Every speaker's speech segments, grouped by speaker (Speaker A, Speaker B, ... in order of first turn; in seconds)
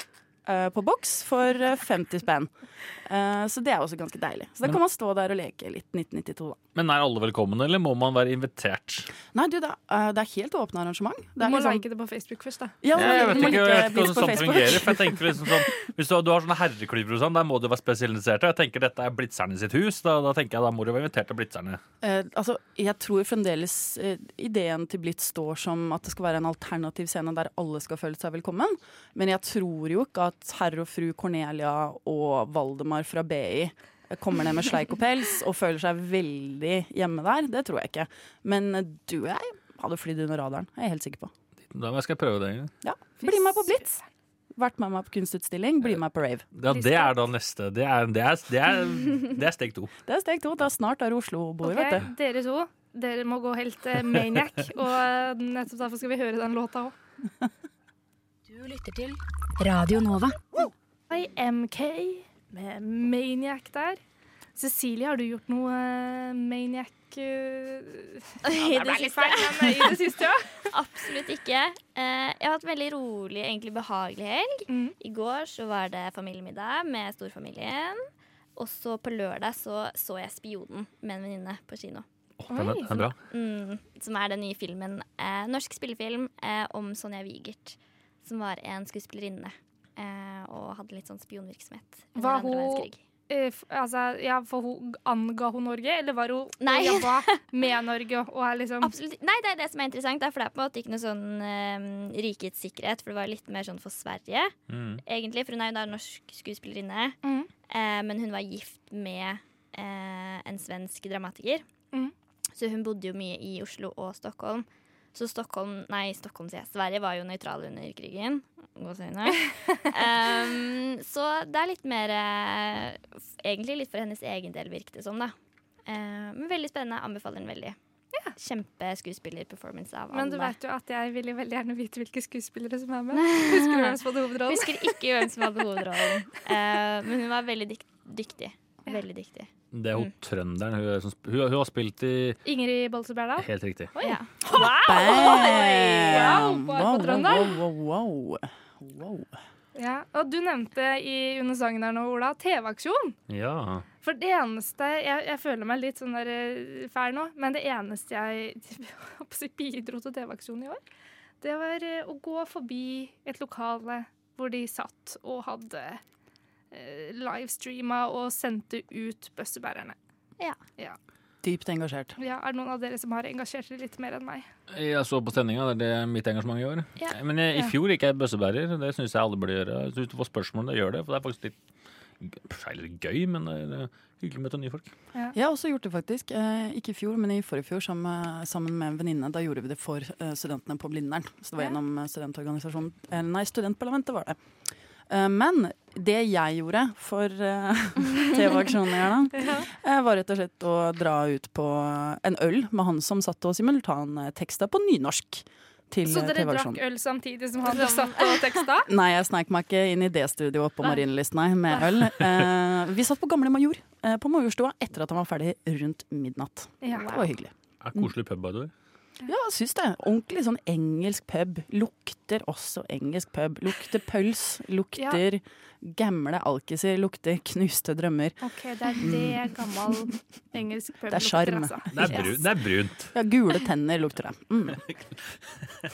Speaker A: 0.5-2.5, 3.0-6.6, 9.3-11.8, 12.8-15.6, 22.0-41.3, 42.8-44.0, 44.5-46.4, 50.1-52.0, 144.7-149.3, 171.4-172.1, 185.3-194.4, 195.1-206.8, 208.9-218.1, 219.2-228.4, 229.0-229.5, 231.1-232.4, 233.1-234.8
Speaker B: 6.7-9.1, 12.9-21.8, 41.7-42.7, 46.5-49.9, 82.4-83.2, 104.7-105.0, 139.7-142.4, 143.4-143.9, 153.3-153.8, 174.7-181.5, 182.2-184.9, 217.8-218.7, 231.9-233.1
Speaker C: 11.4-13.3, 43.2-44.0, 46.7-47.1, 51.6-56.9, 61.1-64.0, 64.5-70.7, 74.7-75.0, 82.5-83.1, 92.1-98.9, 107.2-107.5, 130.1-134.9, 142.4-147.6, 149.7-153.2, 154.0-160.8, 161.4-166.0, 166.7-169.9, 172.2-174.5, 199.4-199.7, 206.0-208.9, 216.8-217.2, 228.4-232.3
Speaker D: 58.5-60.4
Speaker E: 68.4-70.0, 70.7-78.0, 78.5-82.0, 83.2-93.0, 96.6-97.4, 98.8-104.5, 105.0-107.2, 107.7-111.6, 112.5-125.3, 125.8-127.8, 128.3-130.5, 133.1-140.1, 144.0-146.4, 207.7-208.3